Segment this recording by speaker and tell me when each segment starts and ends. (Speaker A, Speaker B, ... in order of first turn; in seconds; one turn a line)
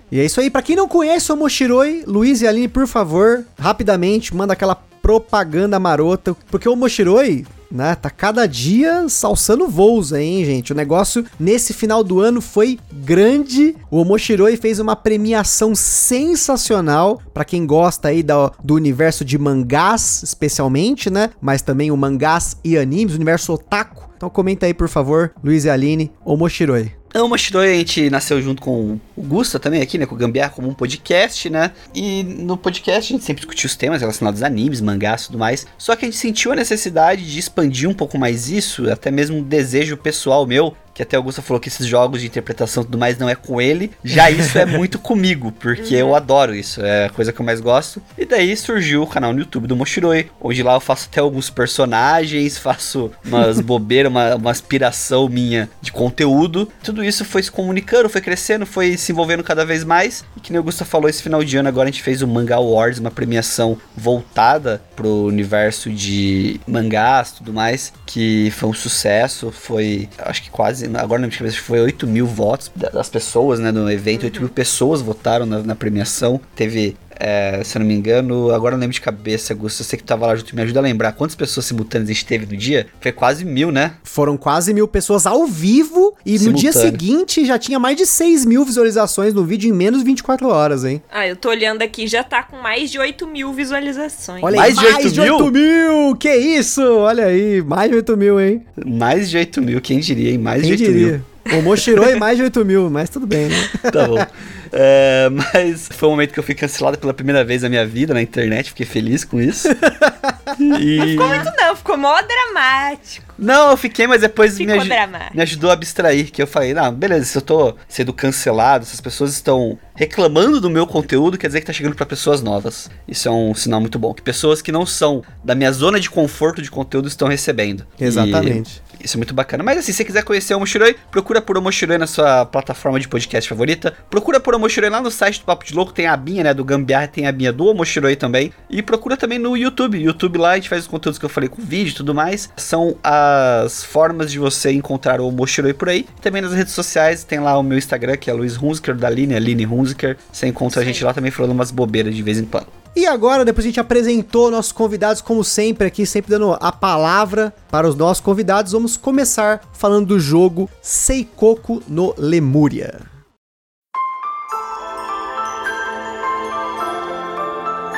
Speaker A: 0.1-26.9
Speaker B: 27.1-84.0
Speaker C: 45.8-46.2
Speaker C: 74.1-74.5
Speaker A: 84.0-91.0
Speaker B: 86.3-87.0
Speaker C: 91.1-94.7
Speaker A: 94.4-98.6
Speaker B: 94.5-95.5
Speaker B: 98.8-101.2
Speaker A: 100.6-104.2
Speaker B: 101.8-102.1
Speaker B: 103.7-109.7
Speaker A: 109.7-110.5
Speaker B: 110.6-111.5
Speaker C: 111.0-113.3
Speaker B: 113.4-152.7
Speaker C: 114.6-115.4
Speaker A: 128.0-128.8
Speaker C: 150.7-151.1
Speaker A: 152.9-163.1